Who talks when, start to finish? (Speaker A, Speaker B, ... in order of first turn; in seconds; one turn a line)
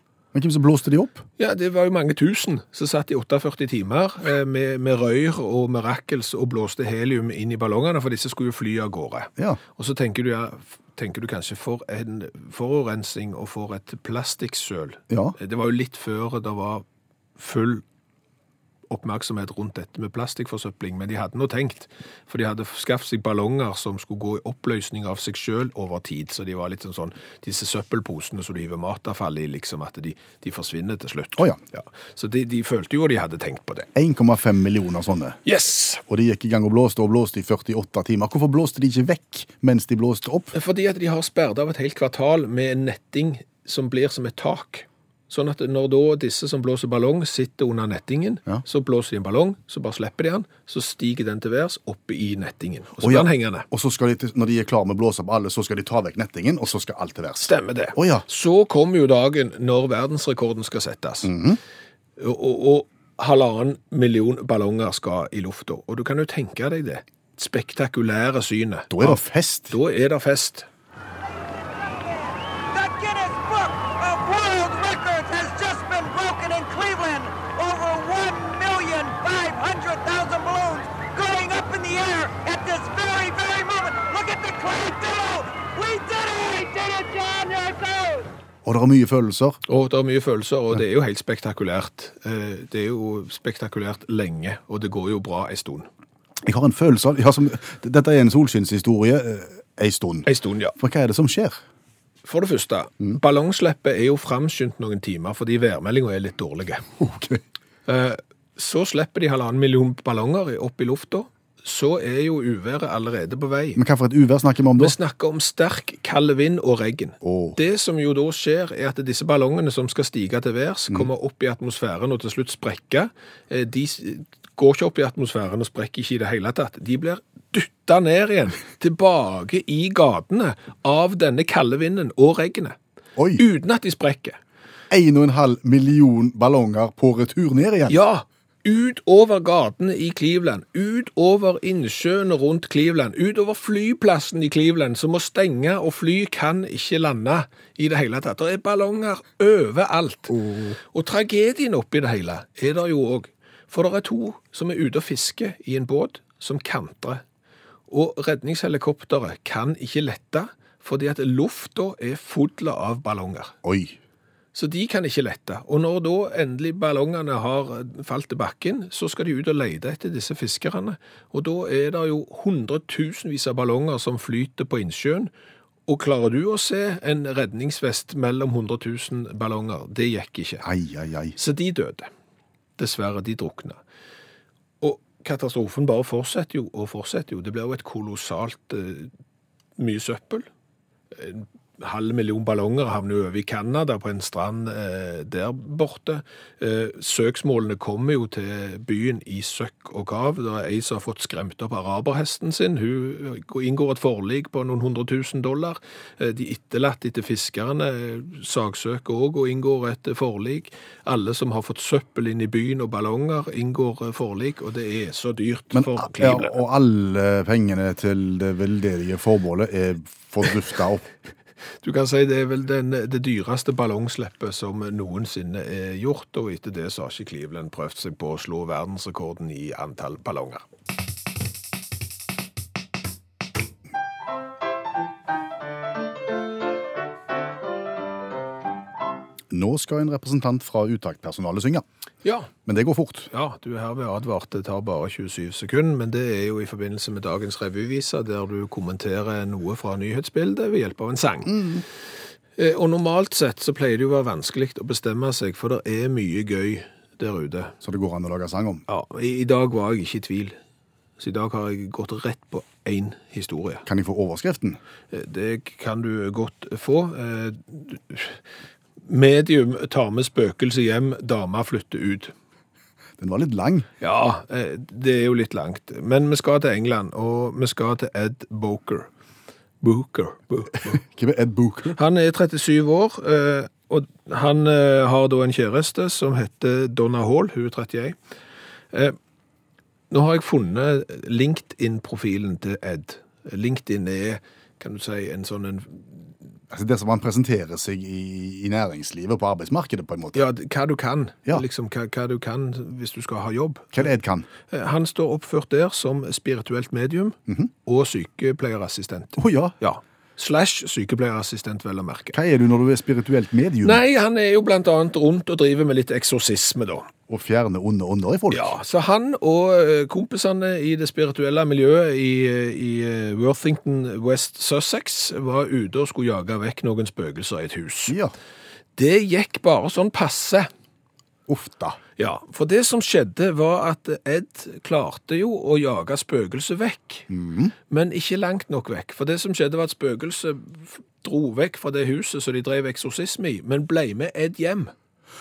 Speaker A: 0.3-1.2
Speaker B: 1.4-16.9
Speaker A: 15.1-15.4
Speaker B: 17.4-17.8
Speaker B: 18.9-33.9
Speaker A: 34.0-35.4
Speaker B: 35.5-36.0
Speaker A: 36.1-40.5
Speaker B: 40.5-53.7
Speaker A: 53.0-58.2
Speaker B: 57.4-61.4
Speaker A: 61.2-61.6
Speaker B: 62.2-70.7
Speaker A: 68.9-69.8
Speaker C: 72.7-88.3
Speaker A: 88.6-89.6
Speaker B: 89.7-95.9
Speaker A: 96.4-101.6
Speaker B: 100.3-100.8
Speaker B: 102.2-106.9
Speaker A: 107.0-107.4
Speaker B: 107.9-113.8
Speaker A: 113.8-115.0
Speaker B: 114.8-132.8
Speaker A: 117.2-117.6
Speaker A: 133.2-133.4
Speaker B: 133.4-134.4
Speaker A: 134.9-138.0
Speaker B: 137.9-157.2
Speaker A: 150.3-150.8
Speaker B: 157.9-163.6
Speaker A: 163.6-164.0
Speaker B: 164.5-175.3
Speaker B: 175.9-180.7
Speaker A: 180.6-181.4
Speaker B: 181.4-182.1
Speaker B: 182.8-183.8
Speaker B: 184.8-189.1
Speaker B: 189.8-190.5
Speaker B: 191.1-216.6
Speaker A: 215.7-221.1
Speaker B: 221.8-230.7
Speaker A: 239.5-241.8
Speaker B: 242.2-242.5
Speaker A: 242.7-243.3
Speaker B: 243.3-251.7
Speaker A: 251.5-251.8
Speaker B: 252.6-257.8
Speaker A: 257.8-258.9
Speaker B: 258.9-260.6
Speaker B: 261.2-263.9
Speaker A: 263.9-264.8
Speaker B: 265.1-268.4
Speaker B: 269.0-272.3
Speaker A: 273.2-273.9
Speaker B: 274.0-279.1
Speaker B: 279.8-281.0
Speaker A: 280.9-282.0
Speaker B: 281.9-288.2
Speaker B: 288.9-289.2
Speaker B: 290.1-296.3
Speaker A: 296.7-300.4
Speaker B: 300.3-304.1
Speaker A: 303.9-304.5
Speaker B: 304.7-312.4
Speaker A: 309.4-309.8
Speaker A: 312.3-314.0
Speaker B: 313.8-317.1
Speaker A: 317.3-318.7
Speaker B: 318.5-328.2
Speaker A: 328.1-328.3
Speaker B: 329.0-330.7
Speaker A: 331.5-332.0
Speaker B: 332.2-337.3
Speaker A: 337.3-337.7
Speaker B: 337.9-344.9